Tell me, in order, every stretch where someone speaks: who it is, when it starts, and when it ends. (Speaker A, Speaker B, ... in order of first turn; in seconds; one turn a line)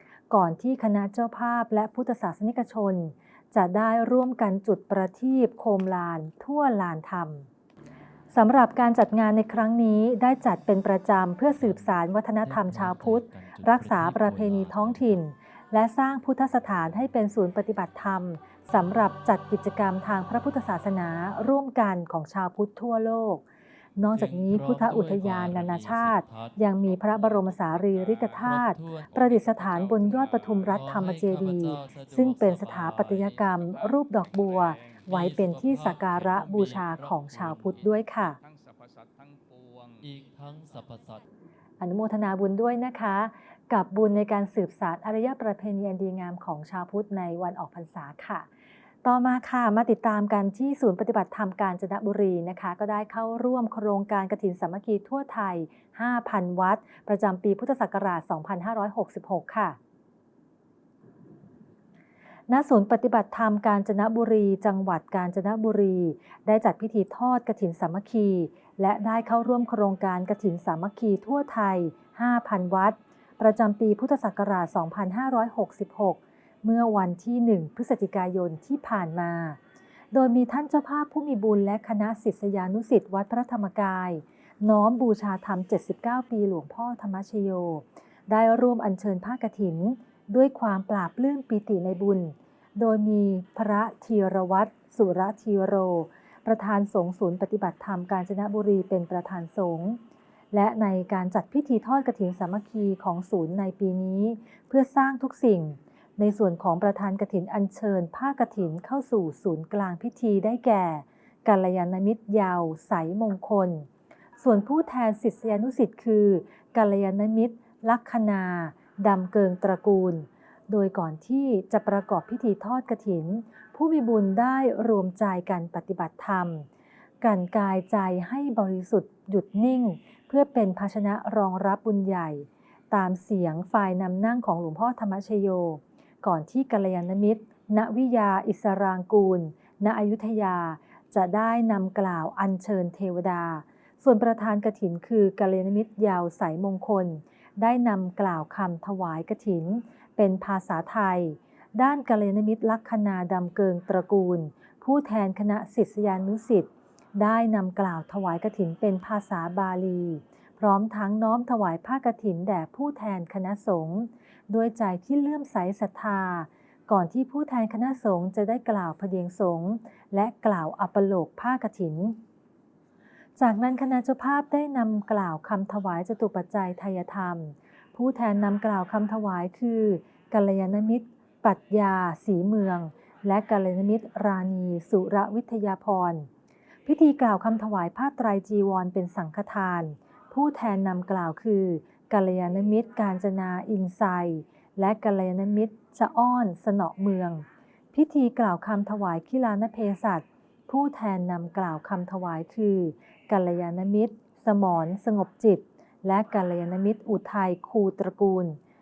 Speaker A: 0.3-7.5
Speaker A: 8.3-23.4
Speaker B: 11.6-15.3
Speaker A: 23.9-38.4
Speaker B: 24.1-33.8
Speaker C: 30.2-30.6
Speaker C: 33.5-35.2
Speaker B: 35.0-38.0
Speaker C: 38.4-40.1
Speaker B: 40.0-41.2
Speaker A: 41.8-48.5
Speaker A: 49.0-59.8
Speaker A: 62.5-79.6
Speaker A: 80.1-100.0
Speaker A: 100.5-113.9
Speaker A: 114.4-126.7
Speaker A: 127.2-172.2
Speaker A: 173.4-186.3
Speaker A: 186.8-208.6